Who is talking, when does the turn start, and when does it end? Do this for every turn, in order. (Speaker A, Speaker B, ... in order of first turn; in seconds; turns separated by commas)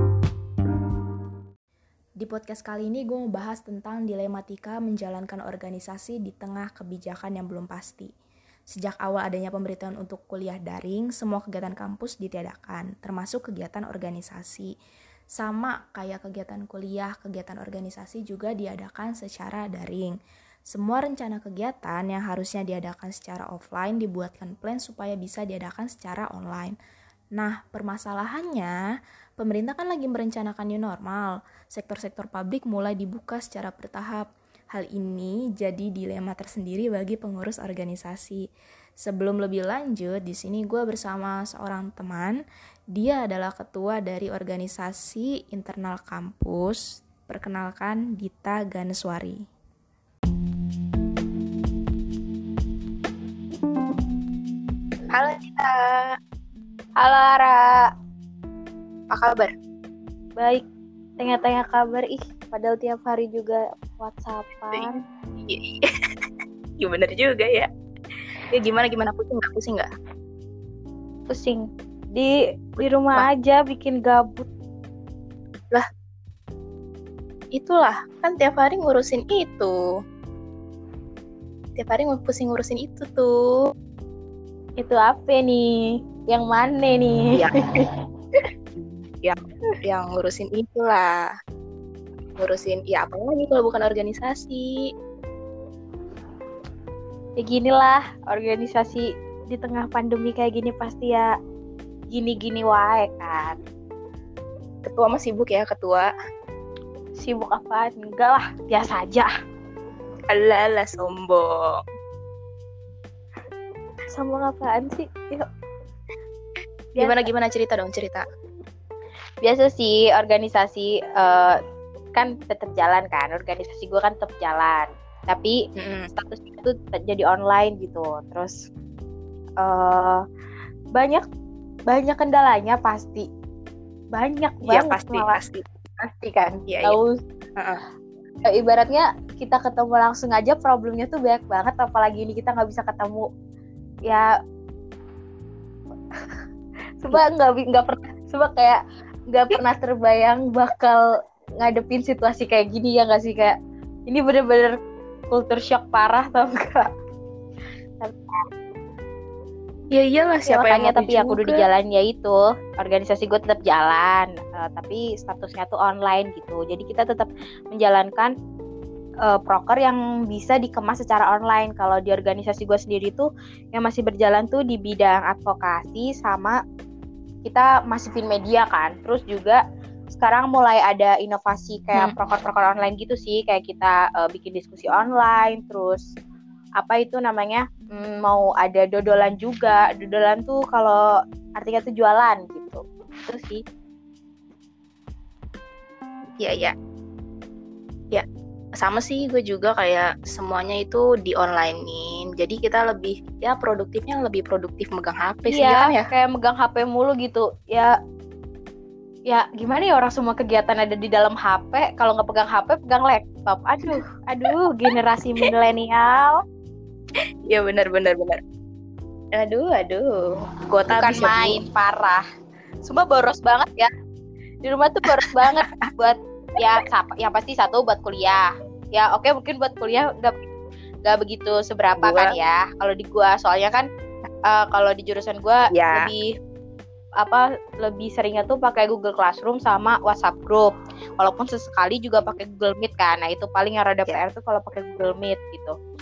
Speaker A: 2.2-8.1, Speaker A: 8.7-14.7, Speaker A: 15.4-20.1, Speaker A: 20.7-26.8, Speaker A: 27.4-28.8, Speaker A: 29.4-38.4, Speaker A: 39.0-42.4, Speaker A: 43.0-49.4, Speaker B: 55.1-56.1, Speaker C: 57.0-57.9, Speaker B: 59.1-59.5, Speaker C: 60.4-60.6, Speaker C: 61.2-65.0, Speaker B: 64.7-65.9, Speaker B: 66.8-67.7, Speaker B: 68.5-69.9, Speaker C: 71.3-74.5, Speaker B: 72.8-73.3, Speaker B: 77.5-79.8, Speaker B: 81.8-83.4, Speaker C: 84.8-87.9, Speaker B: 88.8-91.3, Speaker B: 92.4-94.8, Speaker C: 97.4-101.3, Speaker C: 102.1-103.6, Speaker B: 104.8-106.1, Speaker C: 107.2-109.3, Speaker B: 110.3-111.7, Speaker C: 114.1-115.5, Speaker C: 117.0-117.2, Speaker B: 117.0-118.2, Speaker C: 119.4-121.6, Speaker C: 122.1-125.6, Speaker B: 125.8-126.1, Speaker C: 126.1-128.6, Speaker C: 129.6-130.2, Speaker C: 130.9-131.2, Speaker C: 131.9-133.3, Speaker C: 134.1-135.4, Speaker B: 134.7-135.6, Speaker C: 136.0-137.2, Speaker B: 136.7-137.0, Speaker C: 138.4-143.3, Speaker C: 147.0-151.0, Speaker C: 151.6-153.6, Speaker C: 154.1-154.8, Speaker C: 155.3-156.9, Speaker C: 158.0-158.4, Speaker B: 159.9-161.6, Speaker C: 160.5-168.3, Speaker C: 169.2-176.6, Speaker C: 177.4-179.6, Speaker C: 180.1-186.1, Speaker C: 186.8-191.0, Speaker C: 191.6-193.6, Speaker B: 196.4-196.7, Speaker B: 198.8-206.1, Speaker C: 205.4-207.9, Speaker C: 209.3-216.4, Speaker B: 217.5-218.4, Speaker B: 219.4-221.6, Speaker C: 220.9-222.2, Speaker C: 222.8-223.9, Speaker C: 224.6-230.5, Speaker C: 231.1-233.9, Speaker B: 232.0-232.3, Speaker C: 234.5-236.3, Speaker B: 235.7-236.1, Speaker C: 237.2-245.7